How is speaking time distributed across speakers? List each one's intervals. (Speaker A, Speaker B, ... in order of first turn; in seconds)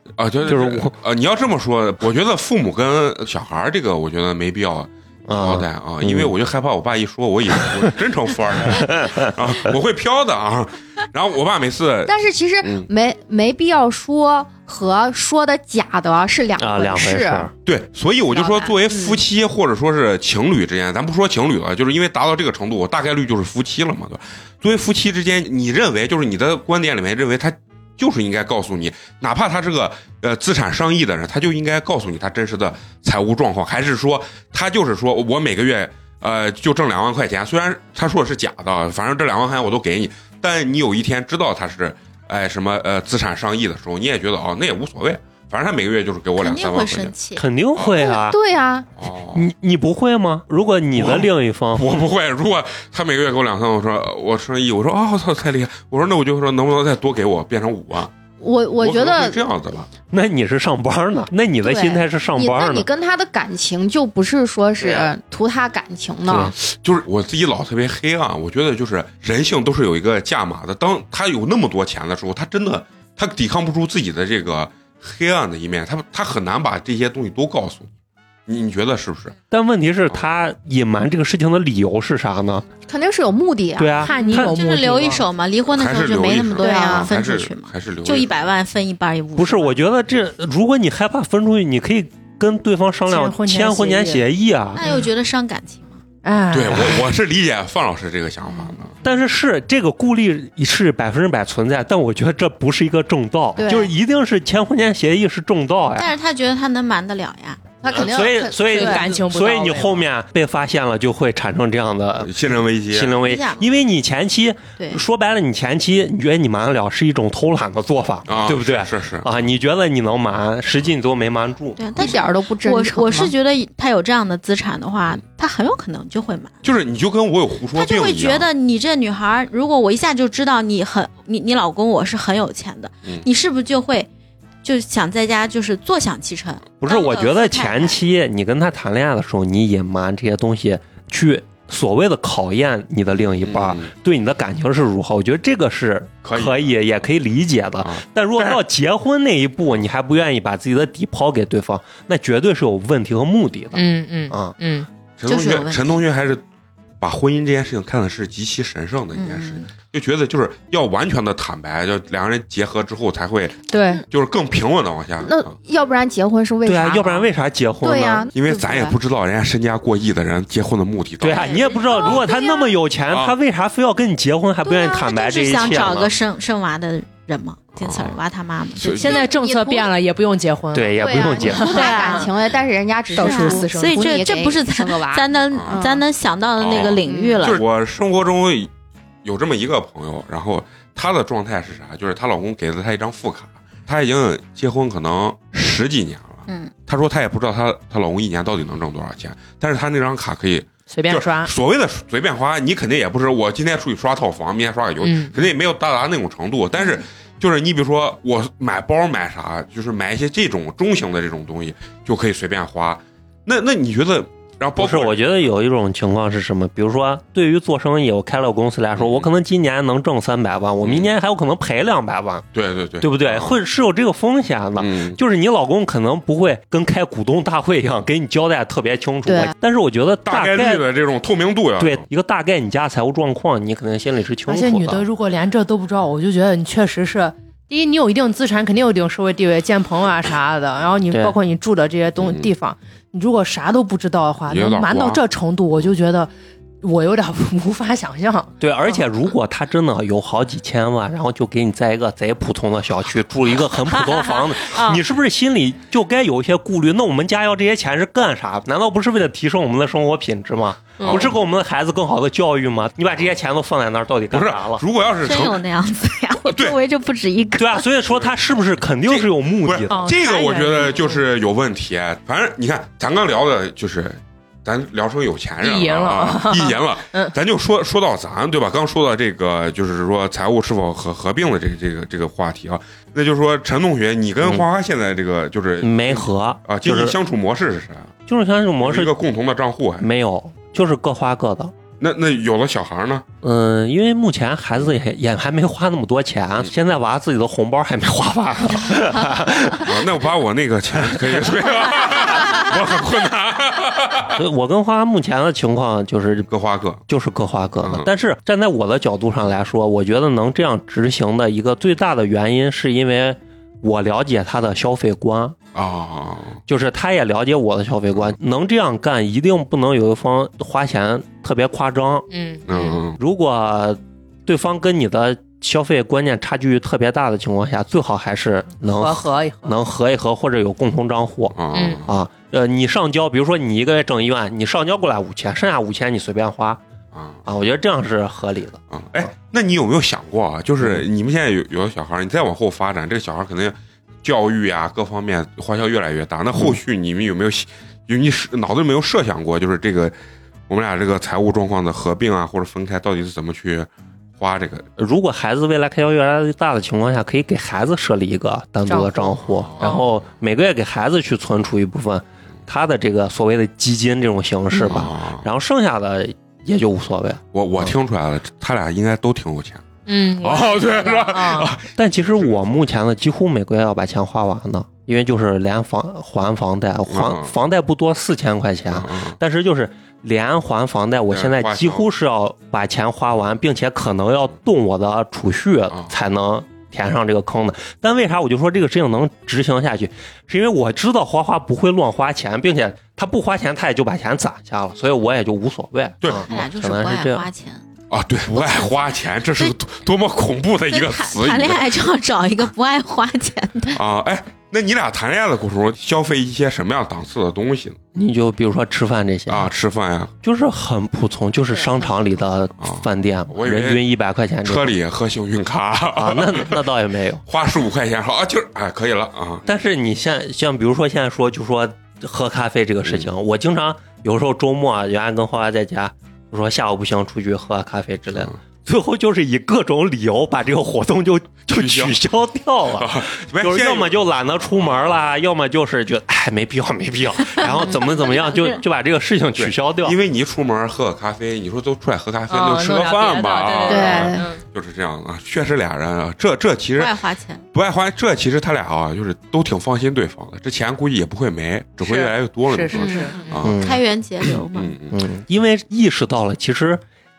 Speaker A: 0.2-12.9, 17.6-47.1, 47.8-48.0, 49.0-49.5, 51.0-58.1, 58.8-59.9, 66.6-77.9, 78.5-79.4, 85.7-88.5, 96.5-99.0, 112.2-113.2, 118.3-119.3, 126.6-128.5, 143.4-143.9, 146.2-146.7, 147.8-148.6, 155.2-156.4, 157.0-165.5, 168.3-171.5, 173.1-173.3, 177.8-178.2, 178.8-179.2, 185.5-185.8, 186.6-188.7, 189.2-215.5, 218.9-219.3, 220.8-221.1, 222.5-223.6, 224.8-225.2, 230.3-232.1, 242.2-242.5, 244.5-245.2, 261.0-261.4, 264.3-265.6, 266.5-266.8, 269.0-288.2, 288.8-290.1, 292.0-293.3, 299.8-304.4, 306.5-307.0, 307.8-308.1, 315.7-316.6, 322.7-323.2, 331.5-332.1, 337.1-337.4, 338.9-350.1, 350.7-354.9, 359.5-360.0, 364.9-365.4, 367.5-372.7, 377.1-377.5, 378.9-379.4, 381.3-382.1, 396.2-396.6, 398.1-401.9, 403.9-408.0, 409.5-410.3, 412.8-414.0, 414.6-416.8, 417.5-419.6, 431.7-432.2, 432.9-434.2, 434.8-435.2, 439.6-447.2, 447.7-453.8, 454.7-455.2
Speaker B: 0.5-0.9, 5.3-6.3, 8.7-9.3, 16.6-17.5, 47.4-48.4, 49.3-52.0, 60.1-62.9, 64.8-65.1, 66.3-66.5, 79.5-82.7, 83.8-84.6, 89.4-94.9, 99.0-106.1, 107.9-112.3, 112.9-122.0, 136.8-154.6, 166.7-168.3, 171.2-176.1, 180.7-181.9, 214.8-222.5, 223.0-230.8, 231.8-235.1, 241.1-241.4, 248.6-264.8, 267.6-270.1, 285.8-287.2, 288.3-289.1, 290.0-291.7, 293.4-300.0, 304.4-306.5, 307.1-315.6, 316.7-322.3, 323.2-336.8, 337.4-338.8, 355.0-367.9, 372.0-397.5, 408.1-409.7, 410.4-414.9, 416.2-417.4, 419.7-440.2, 453.6-454.6, 455.1-457.0
Speaker C: 12.1-17.5, 18.3-19.2, 48.0-48.9, 58.4-59.4, 61.6-66.5, 82.9-84.2, 86.6-87.1, 103.6-103.9, 107.8-109.1, 122.0-123.3, 165.2-167.3, 167.8-169.0, 179.1-179.9, 181.0-186.0, 187.1-187.5, 229.3-229.5, 443.9-444.4, 452.9-453.2
Speaker D: 46.4-47.4, 84.2-89.7, 94.8-96.0, 106.0-107.7, 113.2-113.7, 114.8-115.0, 121.8-126.5, 127.7-134.1, 134.6-138.0, 155.3-156.0, 159.2-159.7, 171.3-172.6, 174.6-179.1, 181.6-182.3, 183.2-187.6, 196.5-196.7, 265.2-267.9, 396.5-397.8, 398.6-398.9, 400.9-404.0, 437.6-438.8, 447.0-447.6, 453.5-454.9
Speaker E: 84.0-85.2, 93.1-94.2, 96.2-97.1, 108.7-110.0, 153.8-154.9, 163.7-164.0, 178.9-182.3, 183.1-184.3, 200.9-201.5, 205.0-205.4, 234.5-246.3, 246.8-249.1, 253.9-255.0, 261.0-261.3, 269.9-271.2, 275.6-277.4, 322.3-322.9, 328.9-329.8, 331.7-332.0, 358.9-360.1, 364.7-365.0, 370.1-371.7, 442.5-444.6, 452.0-453.5